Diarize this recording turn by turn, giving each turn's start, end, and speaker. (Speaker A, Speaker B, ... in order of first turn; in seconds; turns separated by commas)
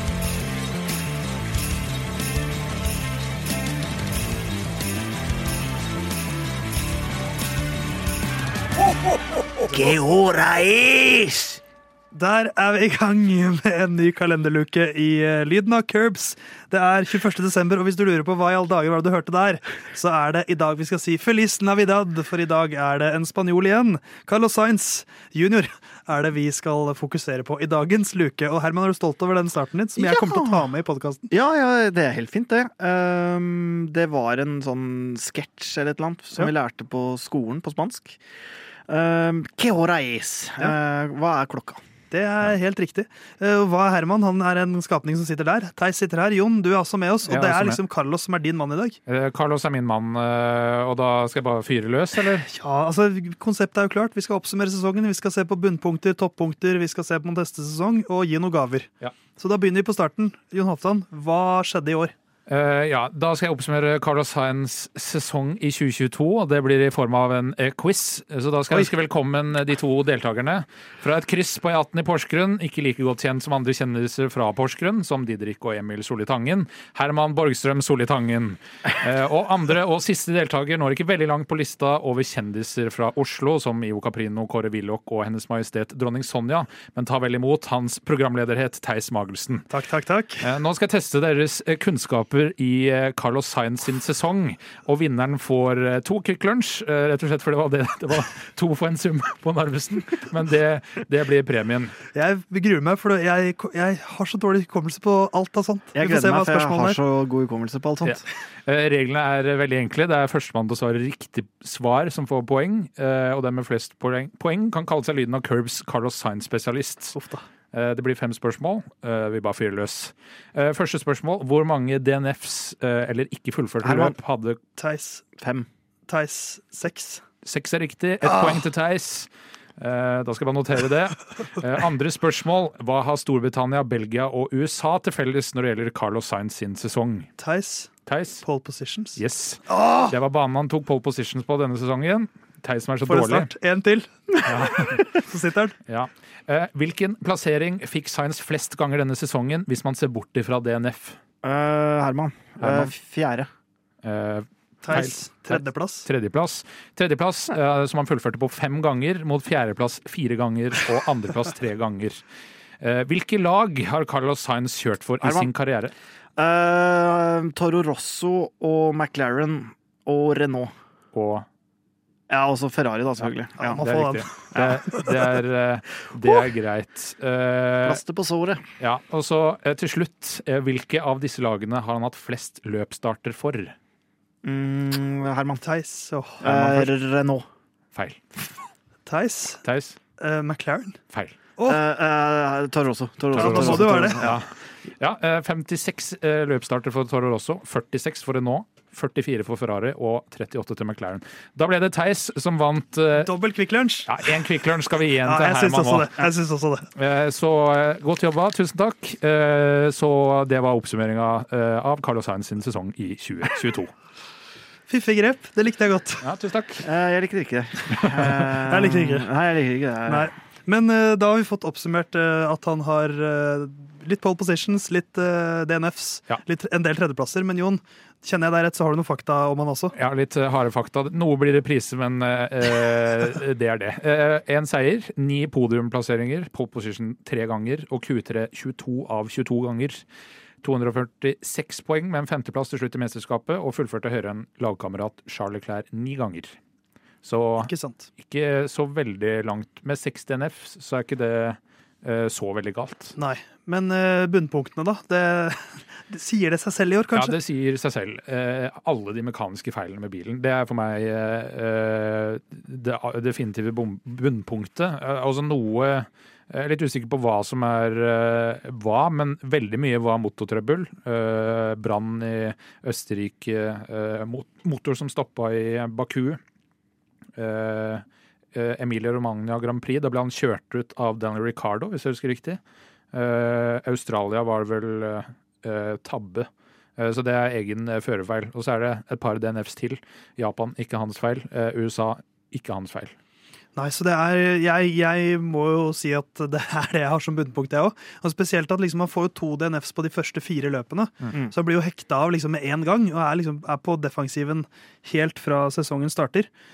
Speaker A: 9.7-11.6, Speaker B: 12.1-31.3, Speaker C: 30.0-30.7, Speaker C: 31.3-38.2, Speaker C: 38.9-41.8, Speaker B: 42.1-49.0, Speaker D: 47.3-47.8, Speaker D: 49.1-52.5, Speaker B: 52.4-62.1, Speaker D: 62.5-89.7, Speaker B: 89.7-90.4, Speaker D: 90.4-102.0, Speaker B: 102.1-107.0, Speaker C: 106.0-108.2, Speaker D: 108.0-117.2, Speaker B: 117.2-117.4, Speaker D: 117.7-124.6, Speaker C: 123.8-124.2, Speaker B: 124.8-125.2, Speaker C: 125.4-125.7, Speaker B: 126.1-127.2, Speaker D: 127.4-137.3, Speaker B: 128.2-128.6, Speaker B: 137.4-137.9, Speaker D: 138.1-138.4, Speaker B: 138.4-139.2, Speaker D: 139.2-143.5, Speaker B: 139.7-140.1, Speaker B: 143.1-144.3, Speaker D: 144.4-145.1, Speaker B: 144.9-145.8, Speaker D: 145.9-151.2, Speaker C: 151.4-153.5, Speaker D: 152.6-152.9, Speaker D: 154.0-162.2, Speaker B: 154.8-156.1, Speaker D: 162.8-165.9, Speaker C: 165.2-165.5, Speaker C: 166.4-170.7, Speaker D: 171.1-171.5, Speaker C: 172.3-173.8, Speaker B: 173.6-175.1, Speaker D: 173.8-178.0, Speaker C: 174.5-174.9, Speaker C: 177.8-178.6, Speaker D: 178.8-183.8, Speaker C: 184.4-185.6, Speaker B: 185.6-186.9, Speaker C: 186.4-187.4, Speaker D: 187.9-188.2, Speaker B: 189.1-189.6, Speaker D: 189.6-190.0, Speaker B: 190.2-191.0, Speaker D: 191.1-191.3, Speaker C: 191.7-194.4, Speaker B: 193.3-194.2, Speaker D: 193.3-203.3, Speaker B: 203.2-204.4, Speaker D: 204.1-206.1, Speaker B: 205.2-206.9, Speaker D: 206.9-213.9, Speaker B: 214.9-216.2, Speaker D: 216.2-216.9, Speaker C: 216.8-220.3, Speaker D: 217.9-218.4, Speaker B: 218.7-219.3, Speaker B: 220.1-229.9, Speaker D: 229.9-240.0, Speaker D: 240.6-246.6, Speaker D: 247.2-253.2, Speaker B: 247.6-248.1, Speaker B: 253.2-257.3, Speaker D: 257.1-276.4, Speaker D: 277.4-282.6, Speaker D: 283.1-293.1, Speaker B: 293.8-306.5